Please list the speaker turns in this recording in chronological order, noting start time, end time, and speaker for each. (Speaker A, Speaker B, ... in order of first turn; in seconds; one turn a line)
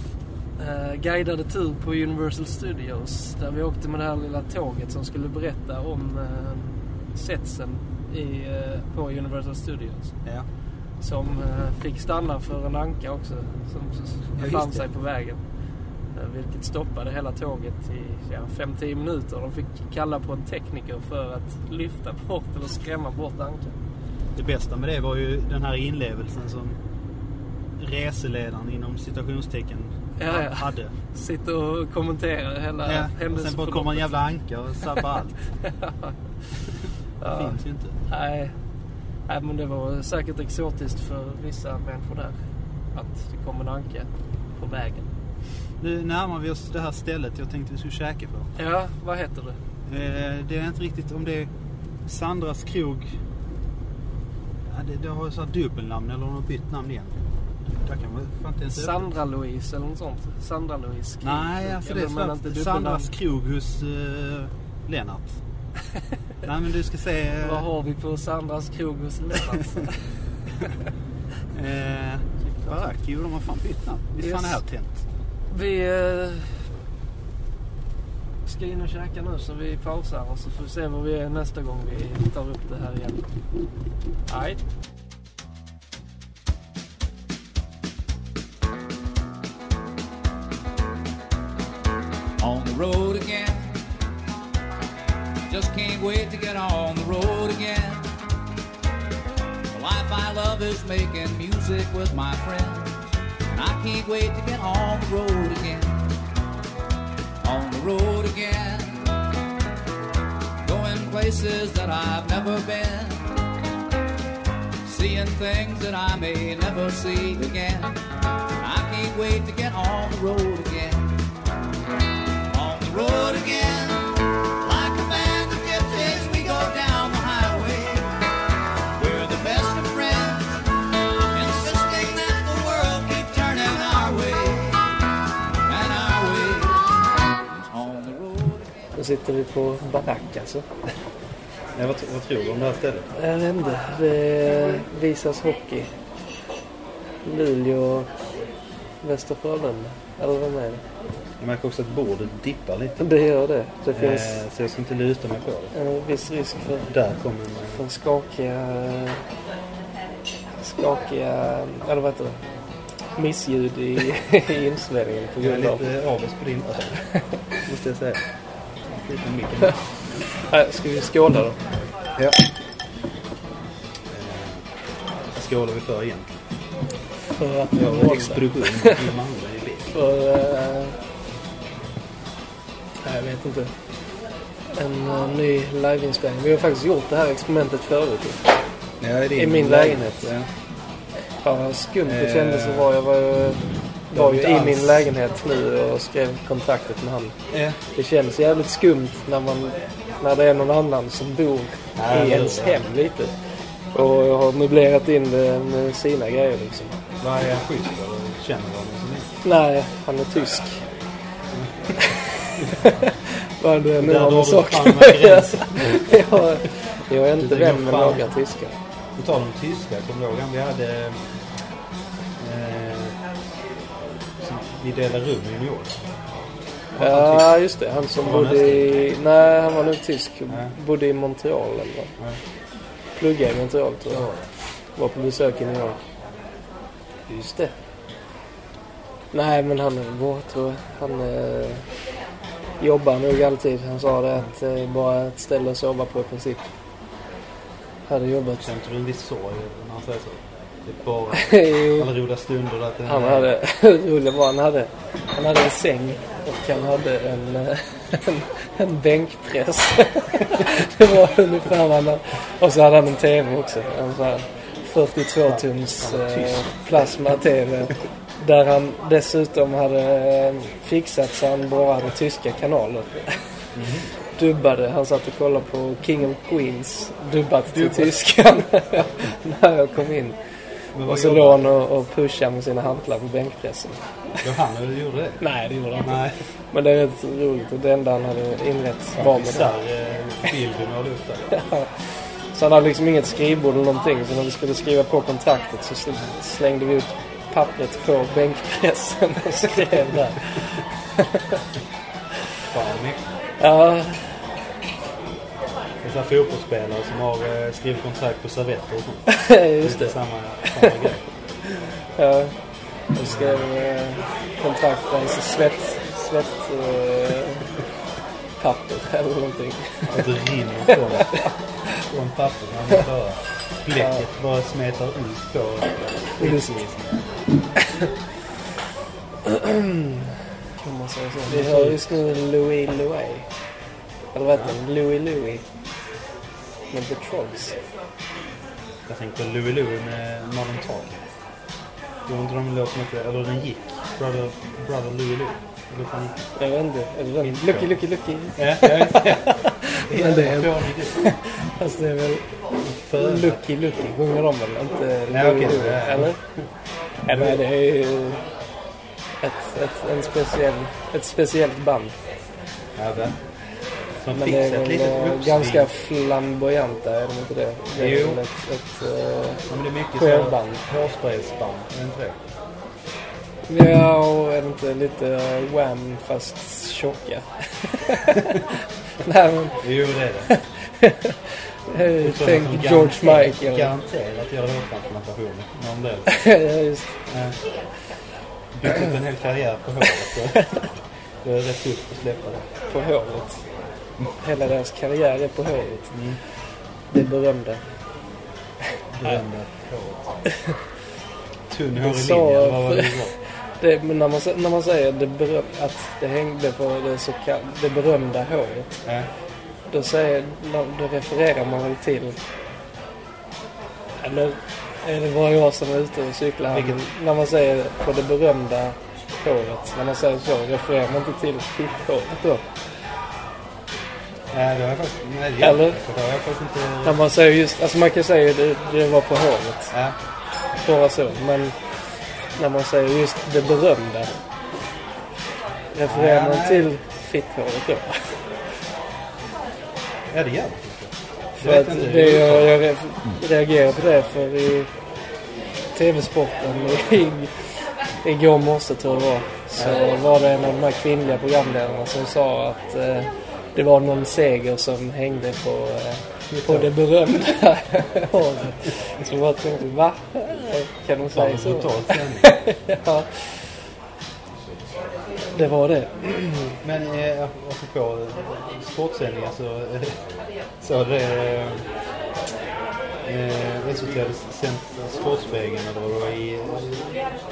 Speaker A: 0.6-10.1
Speaker A: 11.0-15.4
Speaker B: 14.3-14.9
Speaker A: 16.1-23.8
Speaker B: 24.3-26.8
Speaker B: 27.8-30.9
Speaker A: 30.2-34.1
Speaker B: 32.8-35.4
Speaker A: 35.6-36.1
Speaker A: 37.2-38.5
Speaker B: 37.2-38.0
Speaker A: 39.3-42.4
Speaker A: 42.9-45.1
Speaker B: 45.8-48.5
Speaker A: 48.5-49.6
Speaker B: 49.9-51.5
Speaker B: 52.0-53.1
Speaker B: 54.6-57.1
Speaker B: 57.8-59.1
Speaker A: 58.7-63.1
Speaker B: 61.2-65.4
Speaker B: 66.4-67.7
Speaker A: 67.4-70.0
Speaker B: 71.5-75.0
Speaker A: 72.4-72.8
Speaker A: 74.2-74.6
Speaker A: 75.5-76.5
Speaker A: 78.5-83.2
Speaker A: 84.3-84.6
Speaker C: 92.4-93.8
Speaker C: 95.5-98.1
Speaker C: 99.7-106.1
Speaker C: 107.4-109.2
Speaker C: 110.6-113.3
Speaker C: 114.8-118.0
Speaker C: 118.6-121.2
Speaker C: 122.5-128.2
Speaker C: 128.9-134.9
Speaker C: 135.6-136.9
Speaker C: 137.4-138.7
Speaker A: 138.9-140.7
Speaker B: 141.8-143.1
Speaker A: 143.1-145.9
Speaker A: 147.2-148.1
Speaker A: 149.0-150.8
Speaker B: 151.4-153.0
Speaker A: 153.0-154.4
Speaker B: 153.9-155.7
Speaker A: 155.7-156.9
Speaker B: 156.9-157.8
Speaker A: 157.7-159.2
Speaker A: 160.6-162.4
Speaker A: 163.1-165.8
Speaker B: 165.4-167.0
Speaker B: 167.6-168.2
Speaker B: 168.9-169.8
Speaker A: 170.5-171.6
Speaker B: 172.1-172.4
Speaker B: 174.1-174.7
Speaker B: 175.3-176.4
Speaker A: 177.3-179.1
Speaker B: 177.7-179.9
Speaker A: 179.9-180.9
Speaker A: 183.0-183.7
Speaker A: 184.7-188.5
Speaker B: 189.0-190.5
Speaker A: 189.3-190.3
Speaker A: 191.4-197.3
Speaker B: 192.0-192.9
Speaker B: 194.1-195.0
Speaker B: 197.5-197.8
Speaker A: 197.9-203.3
Speaker B: 201.9-202.9
Speaker A: 203.9-207.0
Speaker B: 207.2-209.3
Speaker A: 209.4-210.8
Speaker B: 211.5-212.0
Speaker A: 212.0-218.8
Speaker B: 214.0-216.2
Speaker B: 217.4-218.3
Speaker B: 219.2-221.2
Speaker B: 222.4-223.2
Speaker B: 224.4-226.0
Speaker B: 226.9-227.6
Speaker A: 227.0-232.1
Speaker B: 228.2-229.0
Speaker B: 230.5-230.7
Speaker A: 233.2-234.3
Speaker B: 234.1-234.5
Speaker A: 234.9-236.0
Speaker A: 237.3-237.7
Speaker A: 239.3-241.8
Speaker A: 242.8-246.7
Speaker A: 248.1-248.7
Speaker B: 248.6-253.5
Speaker A: 251.3-252.1
Speaker A: 253.1-273.4
Speaker B: 265.4-267.1
Speaker B: 273.7-274.1
Speaker A: 274.4-280.4
Speaker B: 277.7-278.6
Speaker B: 280.9-281.6
Speaker A: 281.0-284.0
Speaker B: 284.4-285.4
Speaker A: 285.4-289.7
Speaker B: 286.0-286.4
Speaker B: 289.1-291.5
Speaker A: 291.5-291.9
Speaker A: 292.5-301.6
Speaker B: 302.7-303.2
Speaker A: 303.6-304.4
Speaker B: 306.0-311.2
Speaker A: 309.3-311.0
Speaker A: 312.1-312.5
Speaker A: 313.1-317.6
Speaker B: 313.2-313.7
Speaker A: 318.6-320.3
Speaker B: 320.1-327.3
Speaker A: 320.9-321.5
Speaker A: 323.9-324.2
Speaker A: 326.4-326.8
Speaker A: 327.8-328.1
Speaker A: 329.4-333.5
Speaker B: 331.4-332.1
Speaker A: 334.3-335.6
Speaker B: 334.5-334.8
Speaker A: 336.9-337.7
Speaker B: 339.1-341.3
Speaker B: 342.2-346.4
Speaker A: 346.6-352.4
Speaker B: 347.4-348.0
Speaker B: 348.5-351.3
Speaker B: 352.8-353.6
Speaker A: 353.1-356.4
Speaker B: 355.3-356.6
Speaker A: 357.2-358.4
Speaker B: 357.3-357.6
Speaker A: 359.4-362.1
Speaker B: 362.9-363.4
Speaker B: 364.2-365.9
Speaker A: 364.3-369.6
Speaker B: 367.9-368.4
Speaker B: 369.7-372.4
Speaker A: 370.1-370.8
Speaker A: 373.7-379.8
Speaker B: 379.8-380.5
Speaker A: 380.5-383.9
Speaker B: 382.2-386.4
Speaker A: 386.3-387.1
Speaker B: 387.3-387.6
Speaker B: 388.7-390.8
Speaker B: 391.4-392.7
Speaker A: 392.9-393.6
Speaker A: 394.4-396.1
Speaker B: 396.1-396.4
Speaker A: 397.1-397.8
Speaker B: 399.1-400.3
Speaker B: 401.7-403.3
Speaker A: 402.0-409.0
Speaker A: 409.9-412.4
Speaker A: 414.2-422.6
Speaker B: 416.7-417.0
Speaker B: 424.5-427.2
Speaker A: 425.6-426.0
Speaker A: 427.0-429.9
Speaker B: 429.9-430.2
Speaker A: 430.8-431.8
Speaker A: 432.6-434.3
Speaker A: 435.9-438.2
Speaker B: 436.1-436.9
Speaker B: 440.3-443.4
Speaker A: 441.6-444.9
Speaker A: 445.9-447.5
Speaker A: 448.2-463.5
Speaker B: 449.8-450.1
Speaker B: 456.5-457.0
Speaker B: 461.3-462.5
Speaker A: 465.5-466.8
Speaker B: 466.8-470.2
Speaker B: 470.8-471.9
Speaker B: 473.2-477.0